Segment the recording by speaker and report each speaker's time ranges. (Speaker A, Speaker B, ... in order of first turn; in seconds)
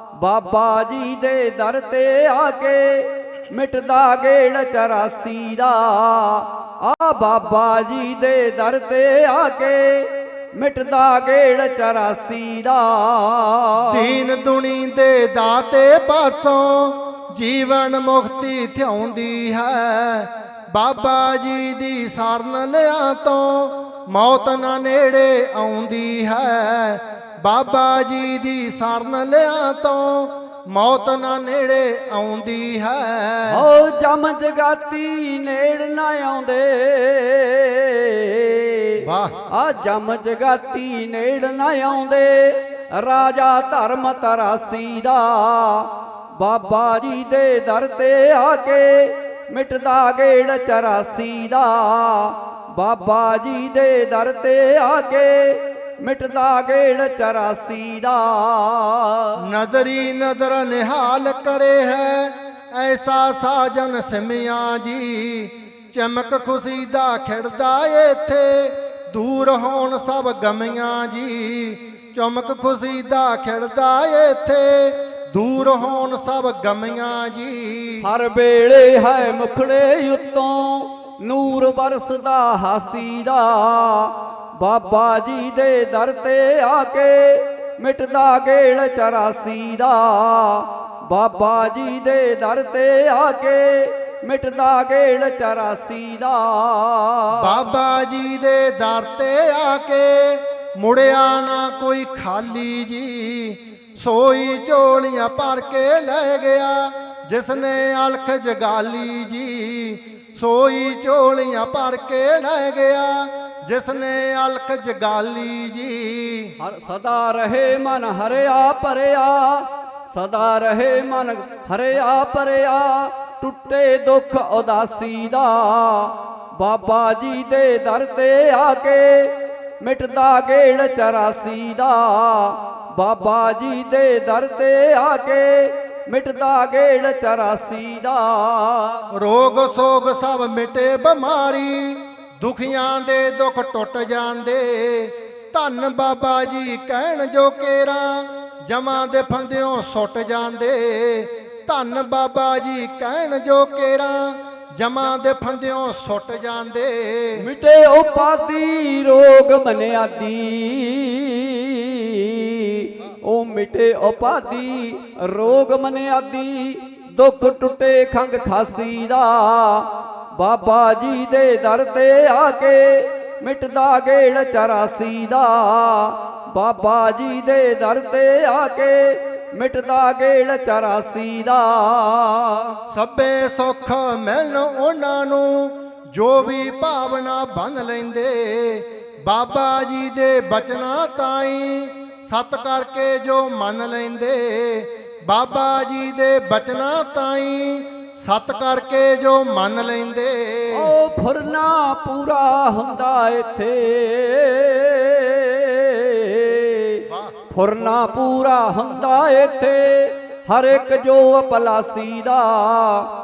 Speaker A: 0.2-14.1, 33.5-59.4, 78.0-97.5, 116.6-139.0, 157.4-182.8, 200.7-213.1
Speaker B: 13.8-33.6, 39.0-39.5, 59.4-78.0, 97.3-116.5, 139.1-157.4, 182.9-200.9